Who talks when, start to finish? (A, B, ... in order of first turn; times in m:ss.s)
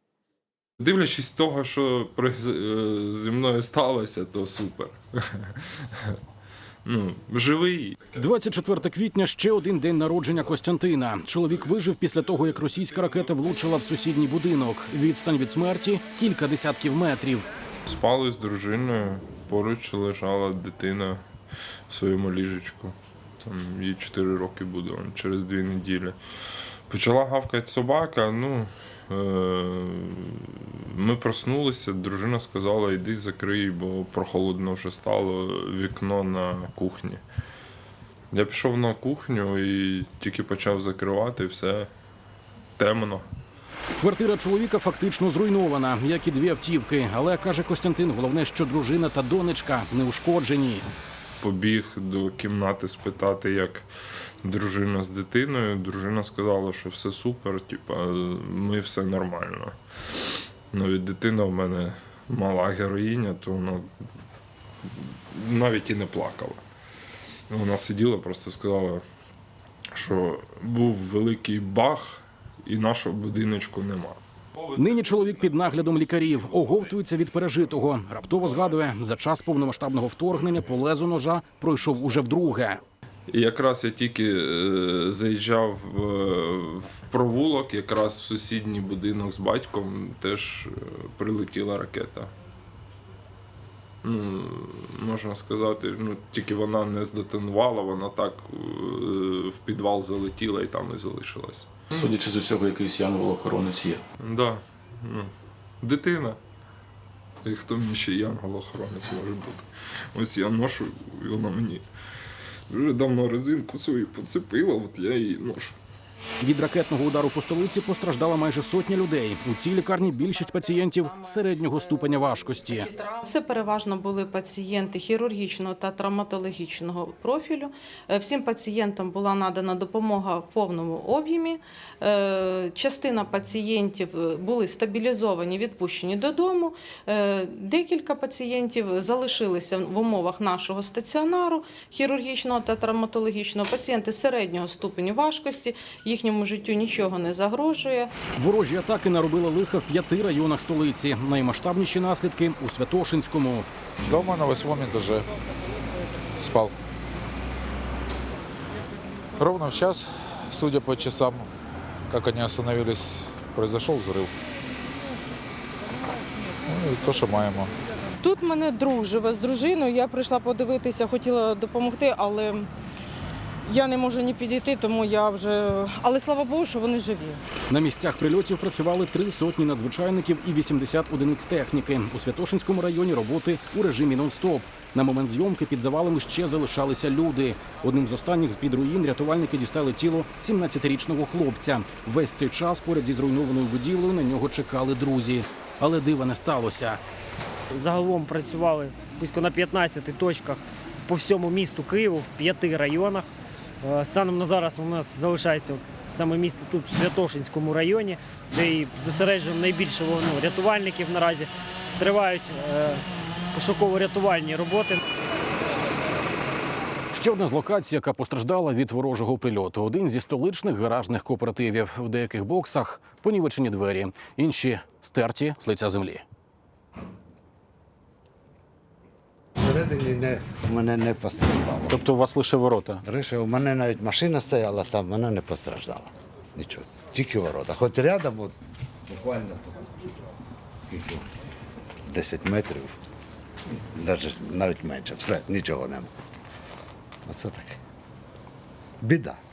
0:00.8-0:06.1 A
0:06.8-0:08.1 A
0:08.2-0:17.5 B
0:17.9-0:21.2 A
0:21.9-0:26.2 A
0:26.9-0:37.2 A
0:38.3-0:41.9 A
0:42.8-0:43.3 A
0:44.0-0:50.8 B
0:51.4-0:53.9 A
0:54.4-0:59.8 A
1:00.7-1:03.9 A
1:04.8-1:06.6 A
1:07.5-1:09.0 A
1:09.9-1:14.2 A
1:14.7-1:22.8 B
1:23.3-1:32.3 A
1:34.0-1:42.0 A
1:41.9-1:44.0 C
1:44.2-1:46.4 A
1:47.4-1:51.8 A
1:52.7-1:55.8 A
1:56.4-2:02.9 B
2:00.1-2:01.4 D
2:02.8-2:28.1 D
2:28.4-2:33.7 B
2:34.0-2:35.3 E
2:36.4-2:36.7 E
2:39.4-2:41.4 E
2:42.1-2:44.3 E
2:46.7-2:47.7 E
2:48.2-2:52.7 F
2:53.6-2:57.4 F
2:57.7-3:17.0 B
3:17.7-3:23.3 G
3:23.8-3:33.0 G
3:33.5-3:35.0 G
3:37.1-3:46.2 B
3:49.6-3:52.0 H
3:51.9-3:53.0 B
3:53.0-3:58.5 H
3:59.1-3:59.9 H
4:00.8-4:01.3 H
4:02.1-4:02.9 H
4:03.9-4:06.1 H
4:07.2-4:07.8 H
4:09.0-4:09.4 H